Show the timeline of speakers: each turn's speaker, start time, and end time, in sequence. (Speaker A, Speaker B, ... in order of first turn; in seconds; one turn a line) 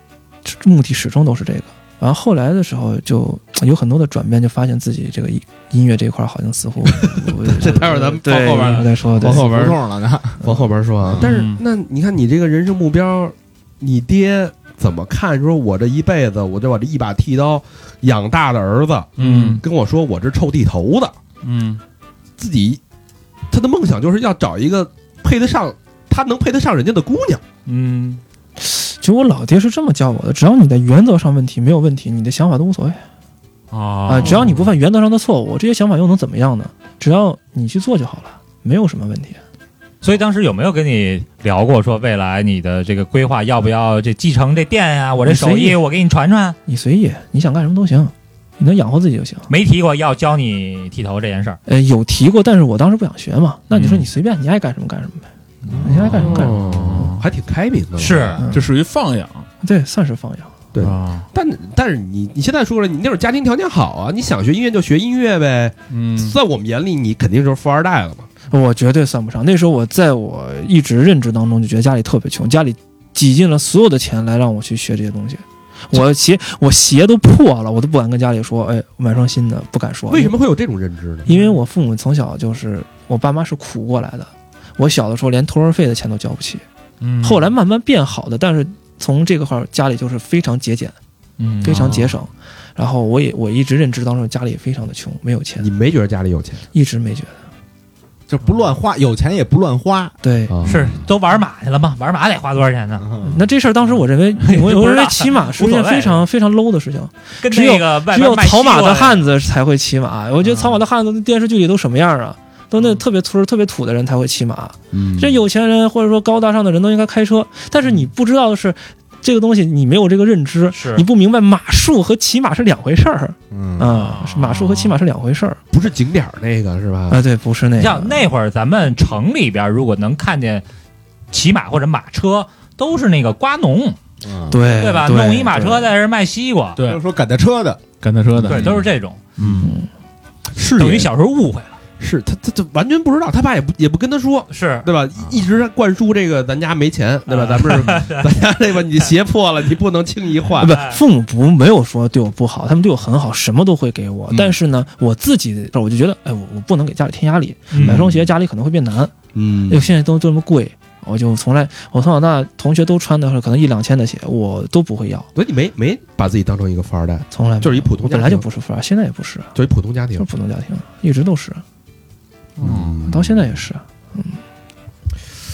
Speaker A: 0.5-9.5
Speaker B: 7.0-9.8
Speaker C: 8.6-8.8
Speaker D: 9.2-10.4
Speaker B: 10.4-21.2
Speaker C: 11.2-11.6
Speaker C: 19.2-19.6
Speaker C: 21.4-21.8
Speaker B: 22.4-22.8
Speaker B: 23.5-27.4
Speaker E: 27.7-28.2
Speaker A: 28.6-33.0
Speaker C: 33.7-34.7
Speaker A: 34.1-39.4
Speaker E: 40.0-46.6
Speaker A: 45.2-45.8
Speaker A: 46.7-49.5
Speaker E: 49.5-51.6
Speaker A: 51.7-55.3
Speaker C: 53.7-54.1
Speaker C: 55.8-57.2
Speaker A: 55.8-56.6
Speaker B: 56.0-58.4
Speaker E: 58.0-58.4
Speaker C: 58.5-59.5
Speaker A: 59.6-60.5
Speaker B: 60.7-68.3
Speaker C: 60.8-61.3
Speaker C: 65.9-66.3
Speaker A: 68.5-80.3
Speaker B: 80.1-81.3
Speaker A: 81.2-86.6
Speaker C: 87.0-87.4
Speaker A: 87.2-91.0
Speaker E: 91.4-92.0
Speaker A: 91.6-95.7
Speaker C: 91.7-92.1
Speaker B: 95.6-96.7
Speaker A: 96.7-97.4
Speaker D: 98.3-100.2
Speaker A: 100.2-100.5
Speaker B: 100.5-100.9
Speaker E: 100.7-103.1
Speaker D: 103.0-103.4
Speaker A: 103.2-125.6
Speaker E: 104.4-106.2
Speaker E: 107.4-109.3
Speaker C: 115.0-115.3
Speaker E: 120.7-121.0
Speaker D: 123.5-123.9
Speaker C: 123.9-125.0
Speaker B: 125.7-127.2
Speaker A: 127.1-128.3
Speaker E: 127.8-130.6
Speaker E: 131.3-134.0
Speaker D: 134.2-134.6
Speaker A: 134.5-135.9
Speaker E: 134.8-136.8
Speaker C: 136.8-137.0
Speaker D: 136.8-137.8
Speaker C: 138.0-139.7
Speaker D: 138.3-138.7
Speaker E: 138.5-139.2
Speaker A: 139.6-139.9
Speaker B: 140.5-141.1
Speaker E: 140.8-141.8
Speaker B: 142.0-150.8
Speaker E: 144.5-144.9
Speaker E: 147.3-148.3
Speaker A: 150.6-159.1
Speaker E: 157.7-158.0
Speaker B: 157.8-158.2
Speaker B: 159.3-159.9
Speaker A: 159.7-165.3
Speaker B: 165.3-168.5
Speaker A: 167.3-169.5
Speaker B: 169.5-170.3
Speaker A: 170.2-171.6
Speaker C: 172.6-173.0
Speaker B: 172.6-173.5
Speaker A: 173.0-174.4